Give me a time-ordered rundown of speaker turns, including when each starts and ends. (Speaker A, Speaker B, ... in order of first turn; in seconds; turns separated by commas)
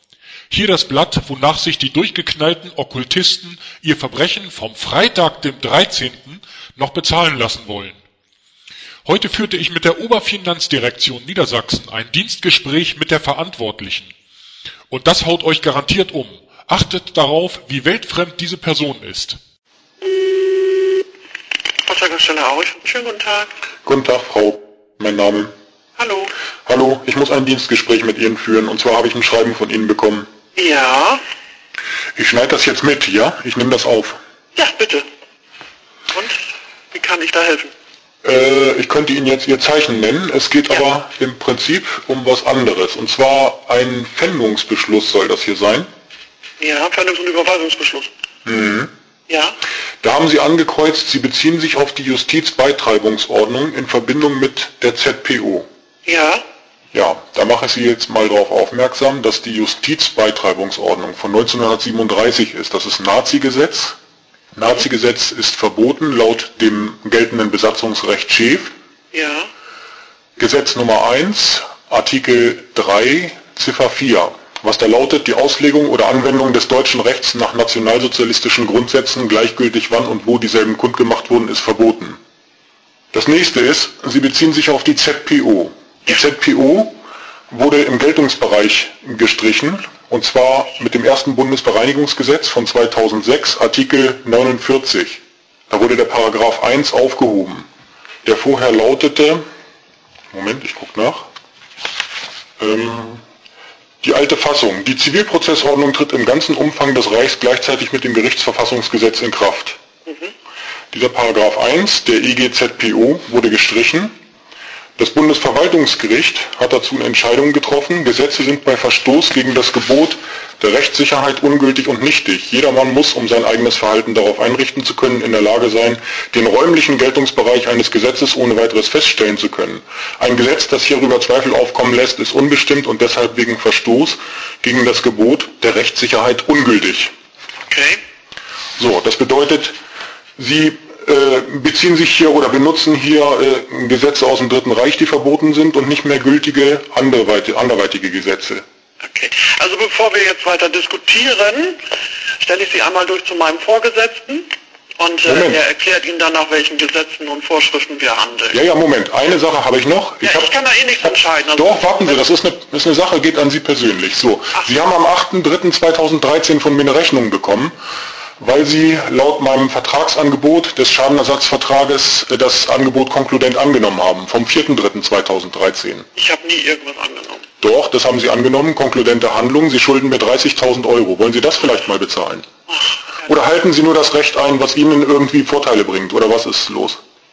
Speaker A: 0.5-8.0, Speaker A: 9.1-14.1, Speaker A: 14.9-19.4, Speaker B: 21.9-23.5, Speaker C: 23.9-25.5, Speaker B: 26.0-26.3, Speaker C: 26.6-30.3, Speaker B: 30.6-31.2, Speaker C: 32.1-34.2, Speaker B: 34.5-35.1, Speaker B: 36.1-37.7, Speaker C: 38.2-45.9, Speaker B: 46.6-48.1, Speaker C: 48.4-48.9, Speaker B: 49.3-49.6, Speaker C: 50.0-55.7, Speaker B: 56.0-56.4, Speaker C: 56.9-64.0, Speaker C: 64.5-68.7, Speaker B: 69.1-69.5, Speaker C: 70.4-82.2, Speaker C: 83.1-87.0, Speaker C: 87.5-97.7, Speaker C: 98.2-99.4, Speaker C: 100.3-101.3, Speaker C: 102.6-103.2, Speaker C: 104.0-109.8, Speaker C: 110.9-114.1, Speaker C: 115.0-137.1, Speaker B: 137.7-138.0, Speaker C: 138.8-139.8, Speaker C: 140.4-148.6, Speaker B: 149.0-151.8, Speaker B: 152.4-158.6, Speaker C: 155.2-155.6, Speaker C: 158.5-160.5, Speaker B: 160.2-162.2, Speaker C: 161.6-167.7, Speaker C: 168.4-176.1, Speaker B: 176.1-177.4, Speaker C: 177.6-182.4, Speaker B: 182.7-183.3, Speaker C: 183.3-187.0